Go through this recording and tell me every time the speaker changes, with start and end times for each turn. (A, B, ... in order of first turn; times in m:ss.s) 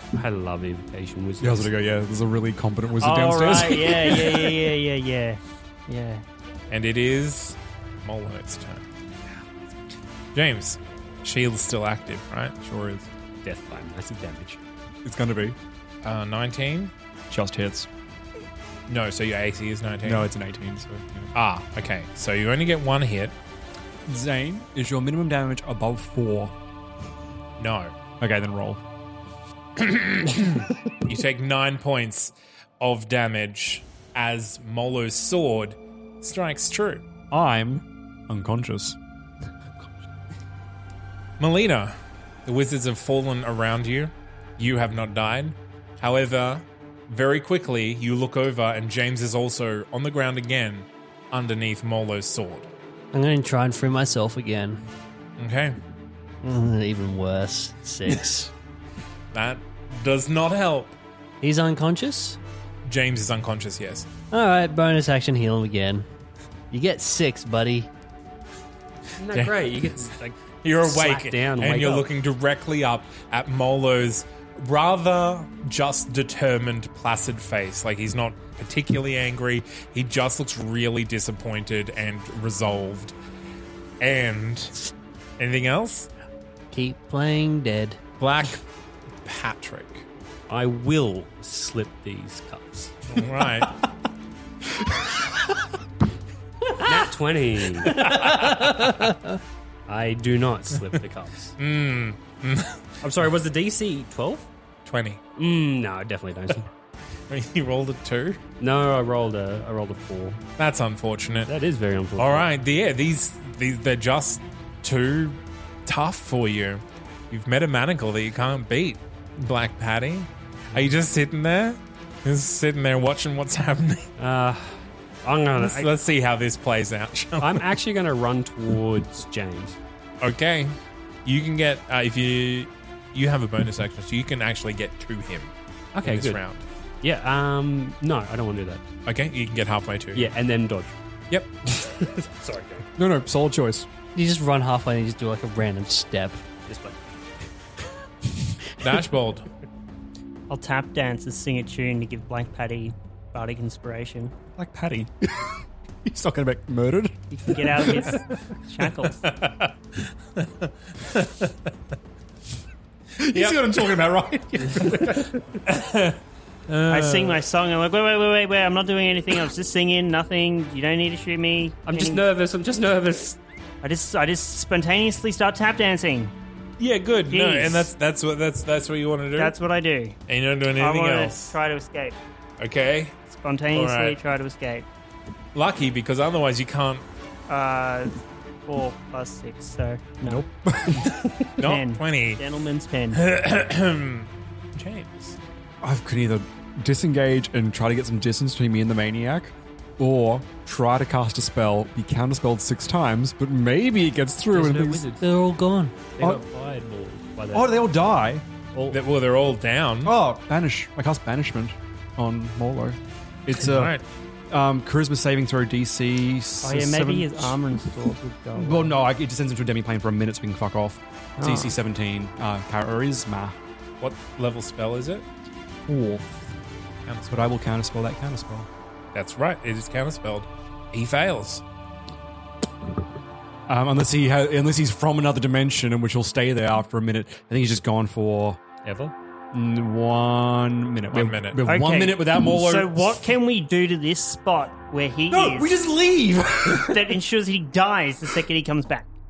0:00.2-0:01.7 A
0:01.4-0:04.4 B
0:03.0-0:06.2 C
0:06.7-0:08.8 D
0:10.3-0:12.5 D
0:12.6-0:13.1 B
0:13.4-0:14.6 A
0:15.0-0:15.6 B
0:16.0-0:16.9 D
0:17.3-0:17.9 B
0:18.9-0:20.3 D
0:20.0-0:21.3 B
0:21.4-0:23.3 D
0:24.1-0:26.5 B
0:27.6-0:27.9 D
0:28.2-0:28.8 B
0:29.8-0:37.0 D
0:37.3-0:39.0 B
0:41.4-0:41.9 D
0:42.5-0:52.7 D
0:53.1-0:54.8 E
0:55.4-0:55.8 D
0:56.4-0:58.5 E
0:59.3-1:01.0 D
1:01.4-1:02.4 E
1:02.8-1:04.1 D
1:04.3-1:06.1 E
1:06.7-1:07.9 E
1:09.2-1:12.1 A
1:09.3-1:09.8 D
1:10.6-1:23.2 D
1:24.0-1:24.8 D
1:25.4-1:26.1 D
1:26.7-1:28.0 E
1:28.2-1:28.6 D
1:29.2-1:30.0 D
1:30.5-1:33.0 A
1:33.1-1:33.7 D
1:34.8-1:35.2 B
1:36.8-1:38.2 A
1:37.9-1:39.4 E
1:39.9-1:41.5 A
1:41.6-1:42.8 D
1:43.0-1:44.5 A
1:44.9-1:45.2 D
1:45.4-1:46.7 A
1:47.3-1:48.4 D
1:48.6-1:50.4 A
1:50.6-1:51.5 D
1:51.5-1:52.5 A
1:52.2-2:04.1 D
2:04.2-2:05.9 A
2:05.6-2:07.7 D
2:07.4-2:09.8 A
2:10.2-2:16.6 D
2:16.0-2:16.4 A
2:17.0-2:18.8 A
2:19.1-2:20.3 D
2:20.2-2:21.0 A
2:21.7-2:22.9 A
2:23.0-2:23.9 B
2:24.2-2:26.4 E
2:26.7-2:27.0 A
2:28.8-2:29.5 D
2:30.5-2:34.3 C
2:34.6-2:38.2 B
2:37.3-2:39.2 C
2:39.2-2:41.6 D
2:43.2-2:45.4 B
2:43.3-2:43.7 D
2:45.6-2:47.4 D
2:46.9-2:52.3 C
2:51.8-2:53.4 A
2:53.8-2:56.3 C
2:56.8-2:59.6 D
2:57.3-2:57.9 C
2:59.4-3:00.2 C
3:00.3-3:01.6 D
3:00.8-3:02.2 C
3:02.6-3:03.2 D
3:03.3-3:04.9 C
3:03.7-3:04.2 D
3:05.5-3:07.0 D
3:07.5-3:08.1 C
3:08.6-3:10.5 C
3:10.2-3:11.1 B
3:11.6-3:12.4 D
3:11.6-3:13.2 C
3:13.1-3:15.4 D
3:15.8-3:25.0 B
3:24.5-3:25.2 A
3:25.2-3:26.0 E
3:26.2-3:27.8 A
3:27.5-3:28.4 B
3:28.7-3:29.0 A
3:28.9-3:30.2 D
3:30.0-3:34.0 B
3:33.6-3:34.0 D
3:34.5-3:37.6 B
3:36.6-3:39.0 C
3:38.6-3:43.6 B
3:41.4-3:41.8 C
3:44.0-3:45.3 D
3:45.9-3:46.5 B
3:47.1-3:47.6 D
3:47.3-3:48.7 B
3:49.1-3:51.6 D
3:53.7-3:58.6 B
3:58.8-3:59.1 A
3:59.5-4:03.4 B
4:01.1-4:01.6 D
4:01.6-4:05.7 C
4:05.3-4:07.2 B
4:06.7-4:09.1 C